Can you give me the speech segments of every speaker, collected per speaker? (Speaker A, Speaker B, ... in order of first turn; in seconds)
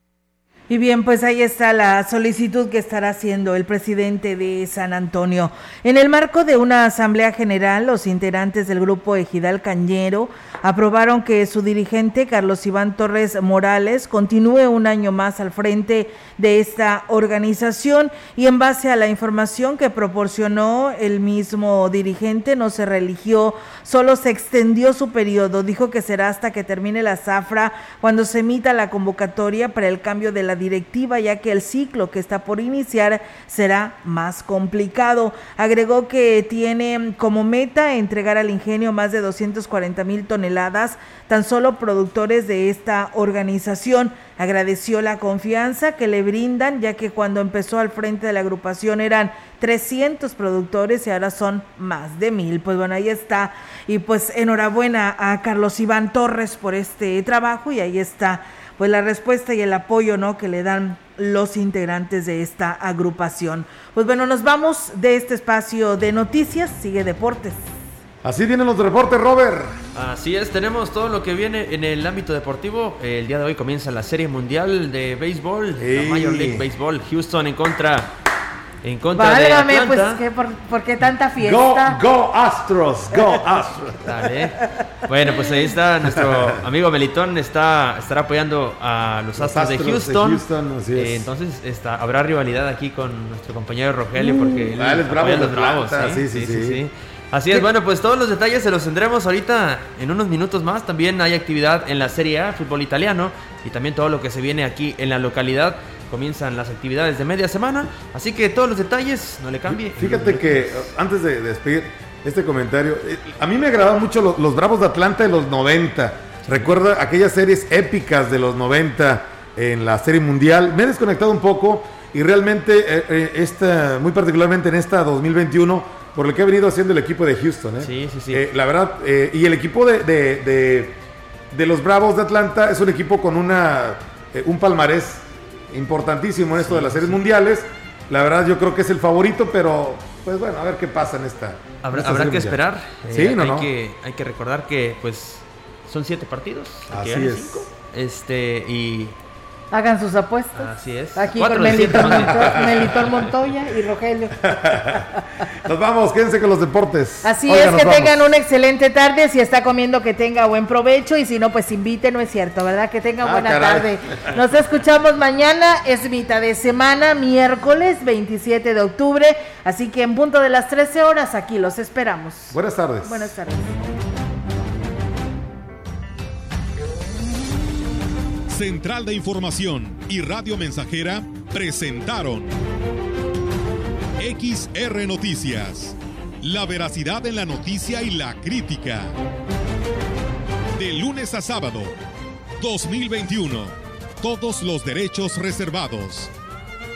Speaker A: 0.7-67.7, 79.2-82.0, 149.7-155.0, 157.2-173.8
Speaker B: 68.2-69.8, 75.8-76.7, 81.4-84.3, 86.1-86.6, 89.3-91.3, 94.2-96.8, 109.7-131.0, 131.5-143.7, 146.9-147.7, 151.6-153.2, 154.5-155.1, 155.7-158.3, 163.2-163.9, 172.5-173.3
Speaker C: 70.0-78.1, 78.8-80.2, 84.0-110.8, 127.8-128.5, 136.6-137.2, 141.8-149.2, 150.6-153.3
Speaker D: 178.5-182.5, 184.2-189.2, 190.8-192.0, 192.6-196.3